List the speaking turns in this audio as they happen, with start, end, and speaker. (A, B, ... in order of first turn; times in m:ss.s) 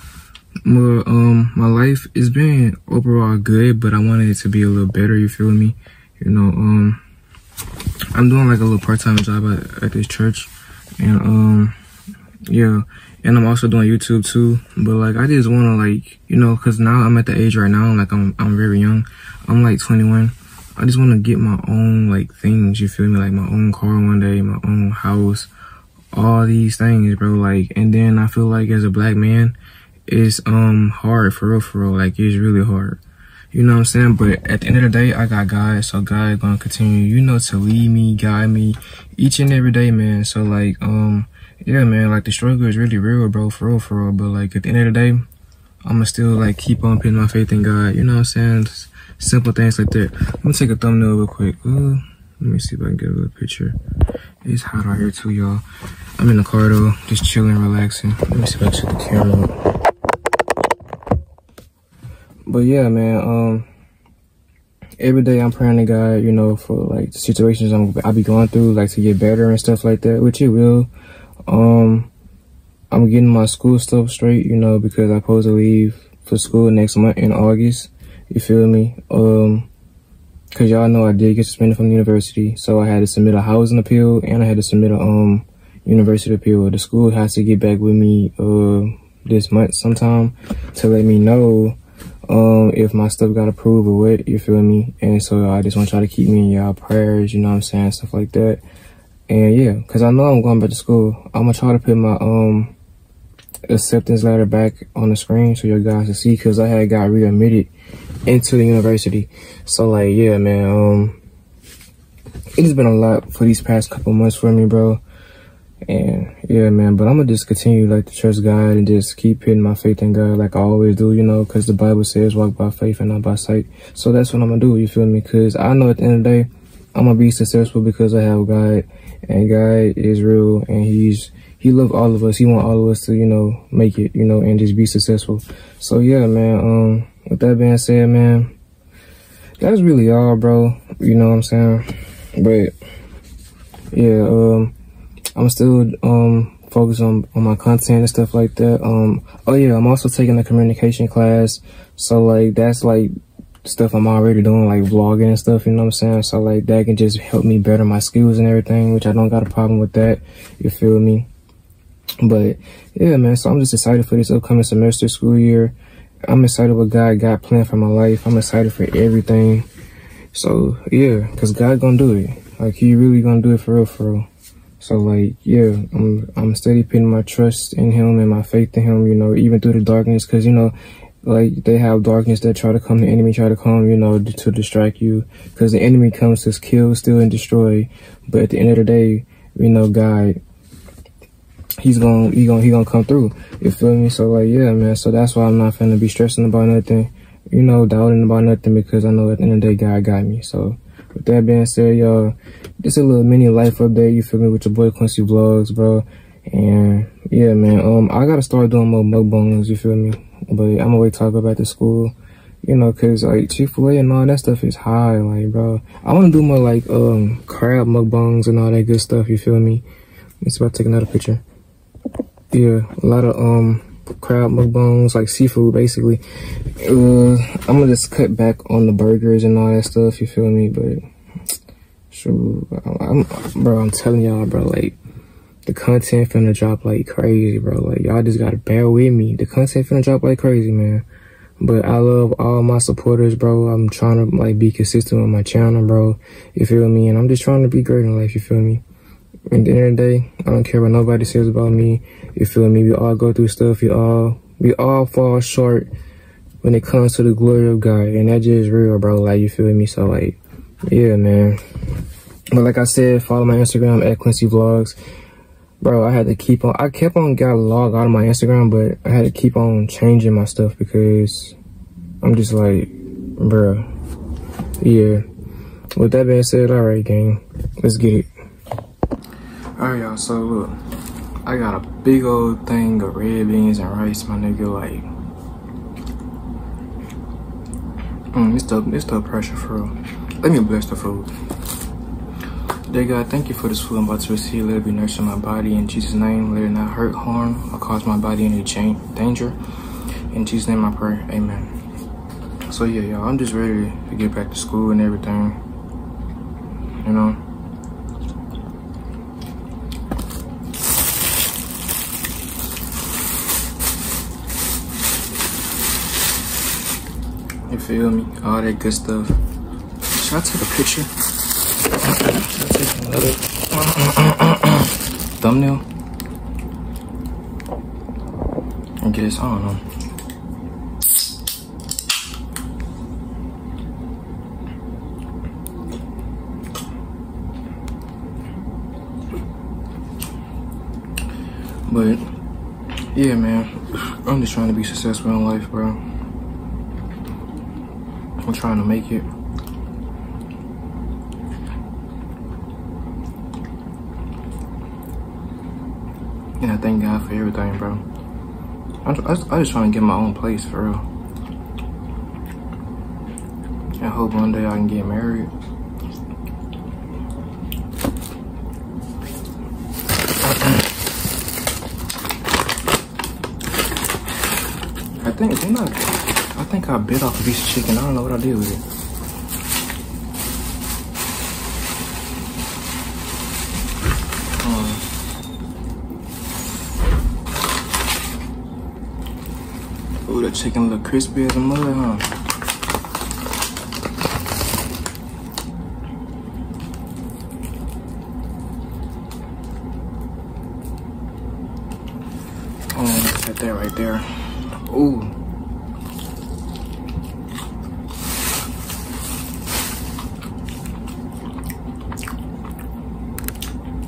0:00.6-0:07.0 A
0:08.1-0:11.7 A
0:12.5-0:25.5 A
0:26.1-0:29.6 A
0:30.1-0:33.0 A
0:33.5-0:45.2 A
0:45.8-0:53.8 A
0:54.4-0:55.6 A
0:56.2-0:59.5 A
1:02.4-1:03.7 A
1:05.0-1:10.9 A
1:11.5-1:12.1 A
1:12.9-1:19.7 A
1:20.5-1:38.6 A
1:39.3-1:42.7 A
1:43.7-1:47.7 A
1:48.2-1:51.2 A
1:52.6-1:55.0 A
1:55.9-2:18.5 A
2:19.6-2:22.7 A
2:23.9-2:24.7 A
2:25.4-2:33.1 A
2:33.6-2:41.3 A
2:42.2-2:45.7 A
2:46.2-2:49.7 A
2:50.3-2:54.3 A
2:54.8-3:10.4 A
3:11.8-3:39.8 A
3:40.4-3:41.4 A
3:42.5-3:46.2 A
3:46.8-3:51.0 A
3:52.1-3:55.0 A
3:55.6-4:01.0 A
4:01.6-4:08.8 A
4:09.5-4:15.9 A
4:16.6-4:21.6 A
4:22.5-4:25.0 A
4:25.8-4:31.6 A
4:32.2-4:33.9 A
4:34.8-4:35.2 A
4:35.9-4:38.3 A
4:39.8-4:40.8 A
4:41.4-4:45.1 A
4:48.3-4:51.3 A
4:52.9-4:59.6 A
5:00.3-5:01.7 A
5:02.7-5:05.6 A
5:07.0-5:07.4 A
5:17.7-5:19.4 A
5:20.1-5:21.1 A
5:22.0-5:25.8 A
5:29.0-5:29.8 A
5:41.9-5:42.3 A
5:43.1-5:46.0 A
5:48.4-5:49.3 A
5:56.6-5:58.0 A
5:59.0-6:01.0 A
6:04.0-6:05.5 A
6:15.2-6:18.8 A
6:24.6-6:25.0 A
6:30.2-6:32.3 A
6:42.9-6:45.4 A